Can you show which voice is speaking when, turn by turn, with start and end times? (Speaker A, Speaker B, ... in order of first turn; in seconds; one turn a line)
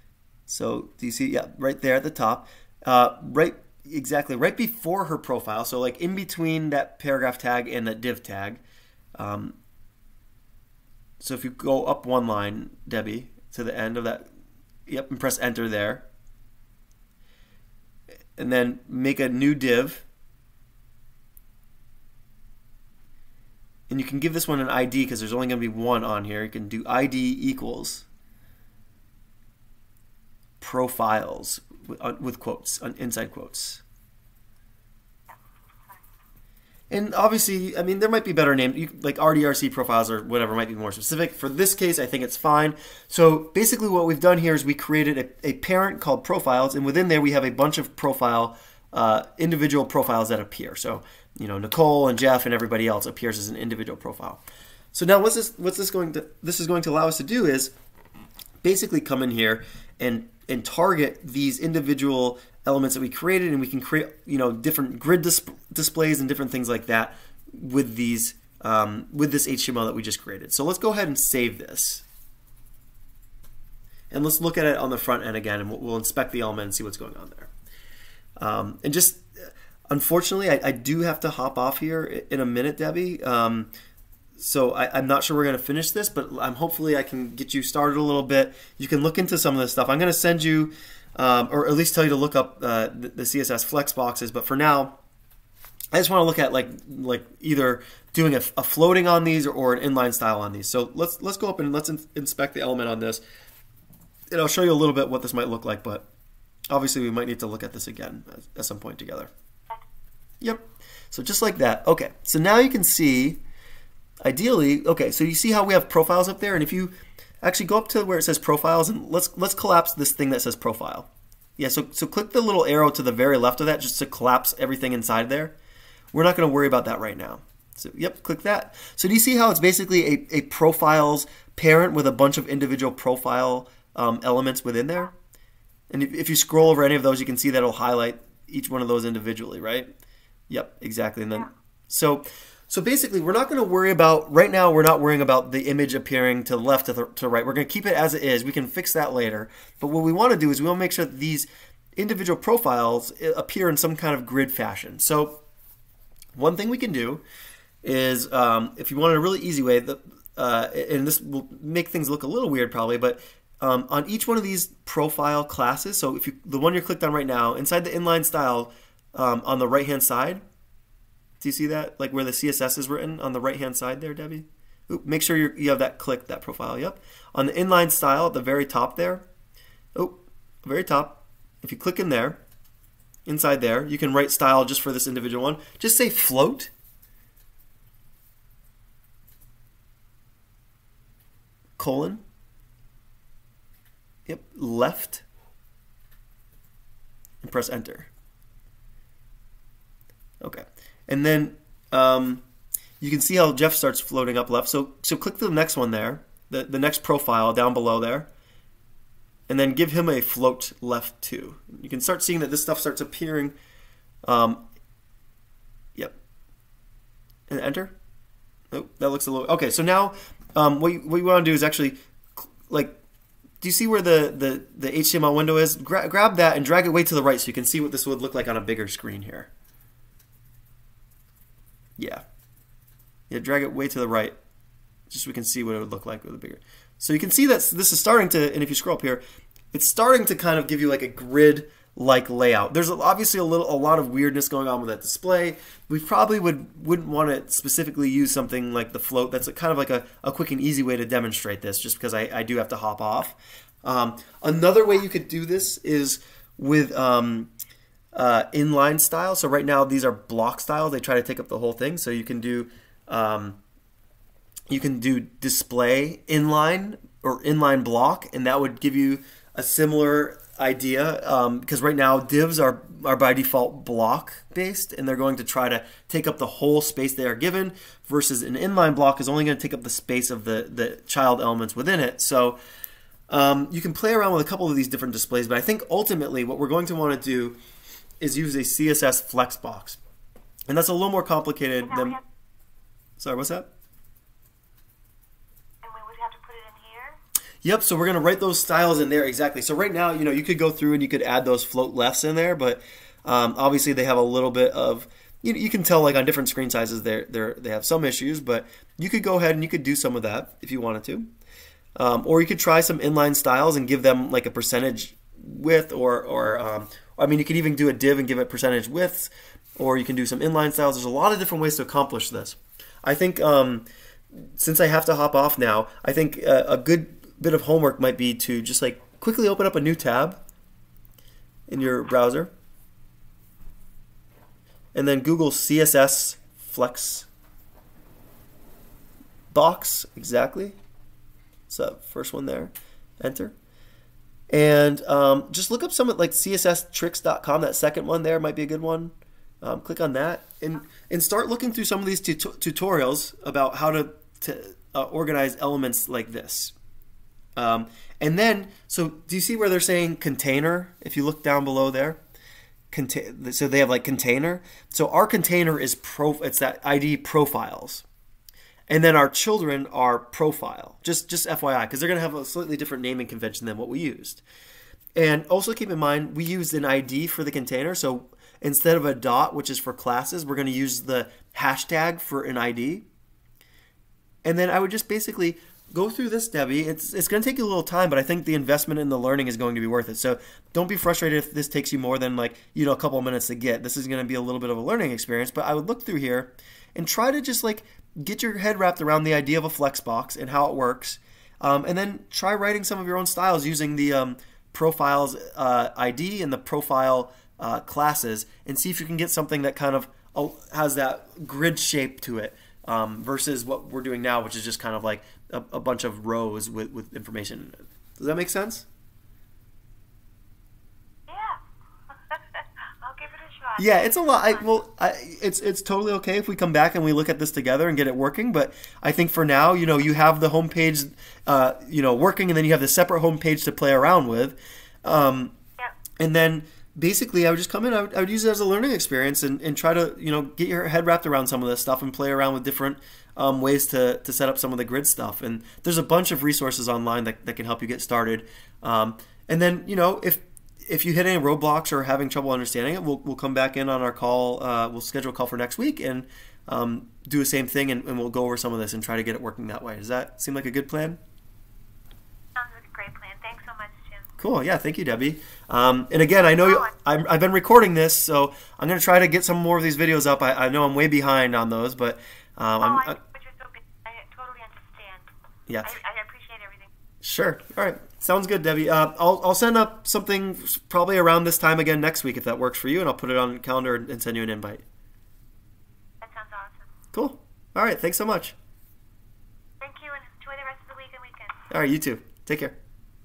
Speaker A: 0.5-8.6
Speaker A: 9.2-9.6
Speaker A: 11.2-14.3
Speaker A: 14.9-16.1
Speaker A: 18.4-20.0
Speaker A: 23.9-28.1
Speaker A: 30.6-33.8
Speaker B: 35.3-36.0
Speaker A: 36.9-54.4
Speaker A: 54.9-57.7
Speaker A: 58.6-72.0
Speaker A: 74.1-77.5
Speaker A: 78.4-79.2
Speaker A: 79.9-83.7
Speaker A: 84.4-95.0
Speaker A: 95.9-103.2
Speaker A: 104.3-106.1
Speaker A: 106.7-109.3
Speaker A: 110.4-113.4
Speaker A: 114.2-125.6
Speaker A: 126.1-135.1
Speaker A: 135.9-139.9
Speaker A: 140.5-155.4
Speaker A: 156.3-157.2
Speaker A: 157.8-170.4
Speaker A: 171.4-179.2
Speaker A: 179.9-182.4
Speaker A: 183.3-186.7
Speaker A: 191.8-192.2
Speaker A: 194.2-195.2
Speaker A: 197.4-198.1
Speaker A: 200.4-202.4
Speaker A: 203.0-208.3
Speaker A: 209.5-213.5
Speaker A: 214.2-214.7
Speaker A: 217.5-217.9
Speaker A: 218.7-223.0
Speaker A: 223.6-229.5
Speaker A: 233.3-234.3
Speaker A: 235.1-239.2
Speaker A: 239.7-257.5
Speaker A: 258.1-263.6
Speaker A: 264.7-282.6
Speaker A: 283.3-287.6
Speaker A: 288.2-290.0
Speaker A: 290.7-292.2
Speaker B: 291.8-292.2
Speaker A: 293.2-293.7
Speaker B: 295.8-297.2
Speaker A: 297.6-311.3
Speaker A: 311.9-330.4
Speaker A: 331.7-332.5
Speaker A: 334.9-337.3
Speaker A: 339.5-340.8
Speaker A: 341.7-343.5
Speaker A: 344.5-356.7
Speaker A: 357.6-362.2
Speaker A: 362.9-368.0
Speaker A: 368.9-374.4
Speaker A: 375.1-383.1
Speaker A: 384.4-418.9
Speaker B: 421.3-424.8
Speaker A: 423.8-435.6
Speaker A: 436.2-461.2
Speaker B: 462.5-464.3
Speaker A: 464.4-473.2
Speaker B: 466.6-466.9
Speaker B: 472.8-475.3
Speaker A: 475.7-476.0
Speaker B: 475.8-476.9
Speaker A: 477.2-484.8
Speaker B: 486.2-486.9
Speaker A: 487.1-488.6
Speaker B: 489.8-491.6
Speaker A: 491.7-492.8